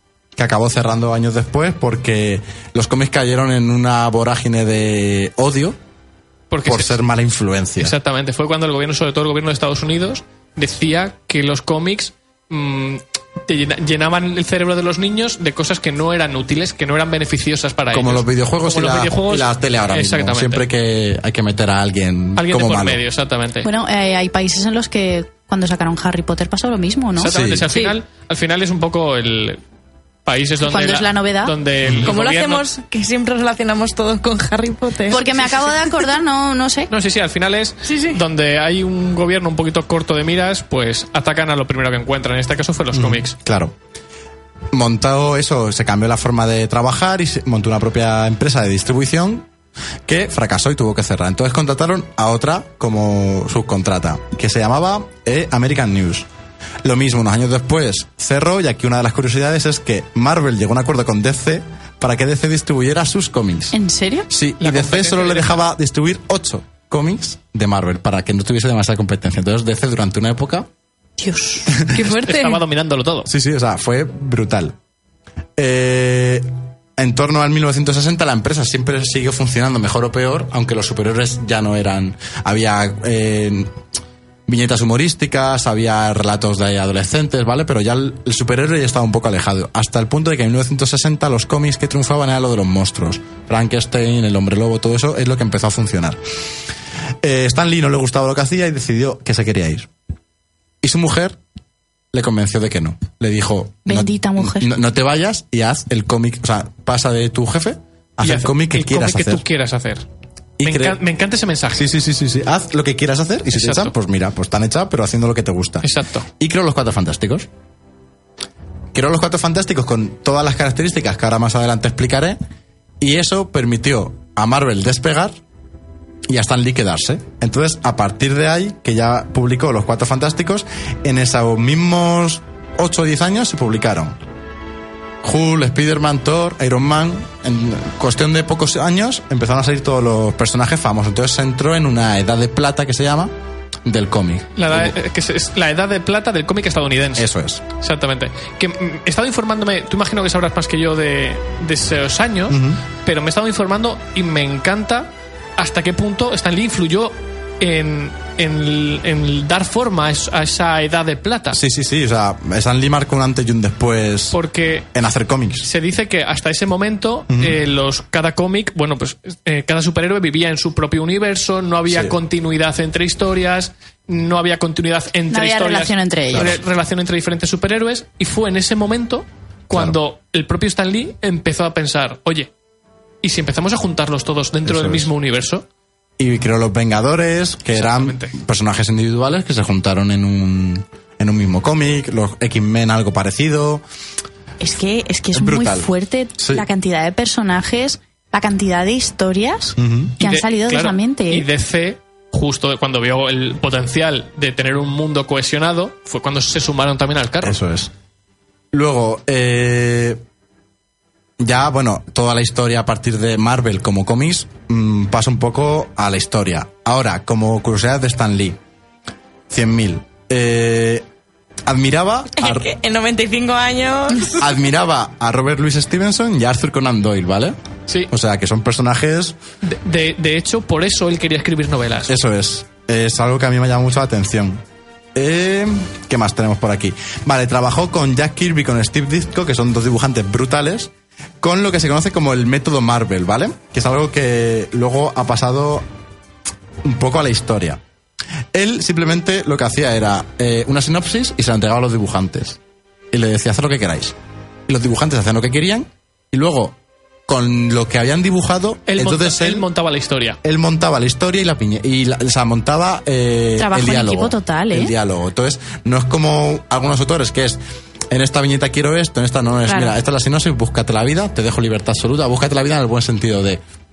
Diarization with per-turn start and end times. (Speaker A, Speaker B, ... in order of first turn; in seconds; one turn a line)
Speaker A: 0.3-5.8
Speaker B: 6.5-7.0
Speaker A: 6.6-7.9
Speaker B: 7.8-20.6
Speaker A: 17.9-23.0
Speaker B: 22.4-23.7
Speaker C: 23.6-27.3
Speaker B: 27.1-29.6
Speaker A: 27.3-27.7
Speaker B: 30.2-32.6
Speaker C: 30.6-31.5
Speaker D: 32.0-35.5
Speaker C: 35.1-36.9
Speaker B: 36.9-43.3
Speaker D: 37.9-38.2
Speaker A: 42.9-43.7
Speaker A: 44.7-49.5
Speaker A: 50.0-56.3
Speaker A: 56.8-63.7
Speaker C: 63.7-64.3
Speaker A: 64.3-70.7
Speaker B: 64.6-65.6
Speaker C: 71.2-71.7
Speaker D: 71.9-72.6
Speaker B: 72.0-73.3
Speaker A: 73.2-74.7
Speaker A: 75.6-83.7
Speaker A: 84.5-96.2
Speaker A: 97.2-99.9
Speaker A: 100.8-101.4
Speaker A: 102.1-109.4
Speaker C: 103.8-104.7
Speaker B: 108.2-110.0
Speaker A: 110.6-111.0
Speaker B: 110.6-111.8
Speaker A: 111.7-115.9
Speaker B: 113.5-113.9
Speaker B: 115.8-116.3
Speaker A: 116.4-117.5
Speaker A: 118.9-122.4
Speaker A: 123.0-125.3
Speaker A: 126.3-134.2
Speaker A: 135.2-143.3
Speaker A: 143.8-144.9
Speaker B: 144.6-161.6
Speaker A: 147.2-147.6
Speaker A: 152.5-152.8
Speaker A: 161.5-164.4
Speaker B: 164.3-164.9
Speaker A: 164.9-165.7
Speaker B: 165.6-182.5
Speaker A: 167.3-167.6
Speaker A: 171.9-172.2
Speaker C: 175.3-176.5
Speaker A: 176.3-176.6
Speaker A: 179.7-180.0
Speaker B: 183.2-185.7
Speaker A: 184.6-185.1
Speaker A: 186.2-193.8
Speaker B: 187.7-188.3
Speaker C: 194.6-201.5
Speaker A: 195.3-196.7
Speaker A: 199.8-200.2
Speaker B: 200.2-207.6
Speaker A: 207.4-207.9
Speaker A: 208.7-210.2
Speaker A: 211.4-218.6
Speaker A: 219.5-221.0
Speaker A: 221.7-222.7
Speaker D: 222.4-224.4
Speaker A: 224.3-227.6
Speaker A: 228.1-229.3
Speaker B: 229.6-232.2
Speaker A: 232.1-234.6
Speaker A: 235.1-245.8
Speaker A: 246.8-247.8
Speaker A: 248.5-252.6
Speaker A: 253.1-254.1
Speaker A: 254.7-256.8
Speaker A: 257.3-259.6
Speaker B: 258.9-260.4
Speaker A: 260.4-273.6
Speaker C: 263.6-264.9
Speaker C: 269.7-269.9